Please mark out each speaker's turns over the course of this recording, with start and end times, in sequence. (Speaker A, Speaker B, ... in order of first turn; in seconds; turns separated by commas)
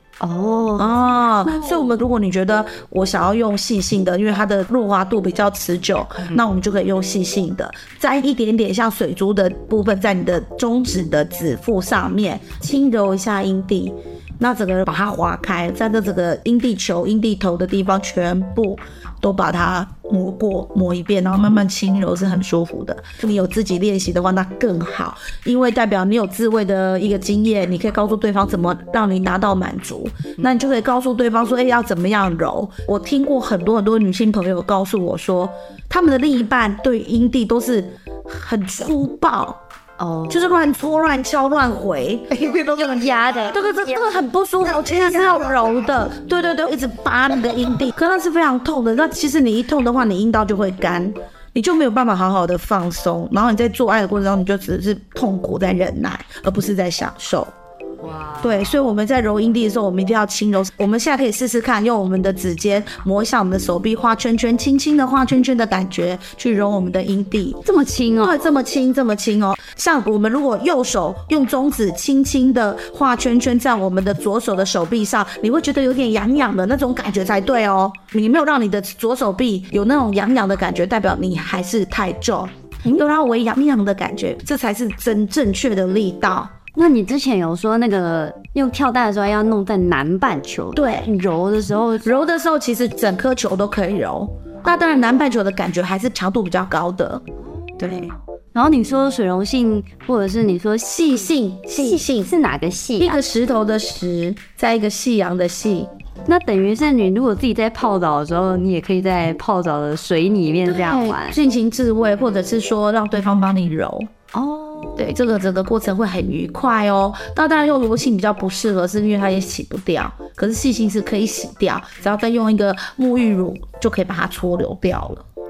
Speaker A: 0.2-1.8, Speaker B: 0.8-39.6, Speaker A: 40.0-40.5, Speaker B: 40.3-42.3, Speaker C: 42.3-43.6, Speaker A: 42.7-43.9, Speaker B: 43.5-57.5, Speaker C: 44.6-45.7, Speaker A: 58.0-58.5, Speaker B: 58.4-67.6, Speaker A: 67.6-68.4, Speaker B: 68.2-86.5, Speaker A: 86.7-92.1, Speaker B: 90.7-91.1, Speaker B: 92.0-97.2, Speaker B: 97.8-98.1, Speaker A: 97.8-101.2, Speaker B: 100.8-102.3, Speaker A: 101.8-103.2, Speaker B: 103.0-105.9, Speaker A: 106.2-111.4, Speaker B: 110.7-114.1, Speaker A: 114.3-115.1, Speaker B: 115.0-125.2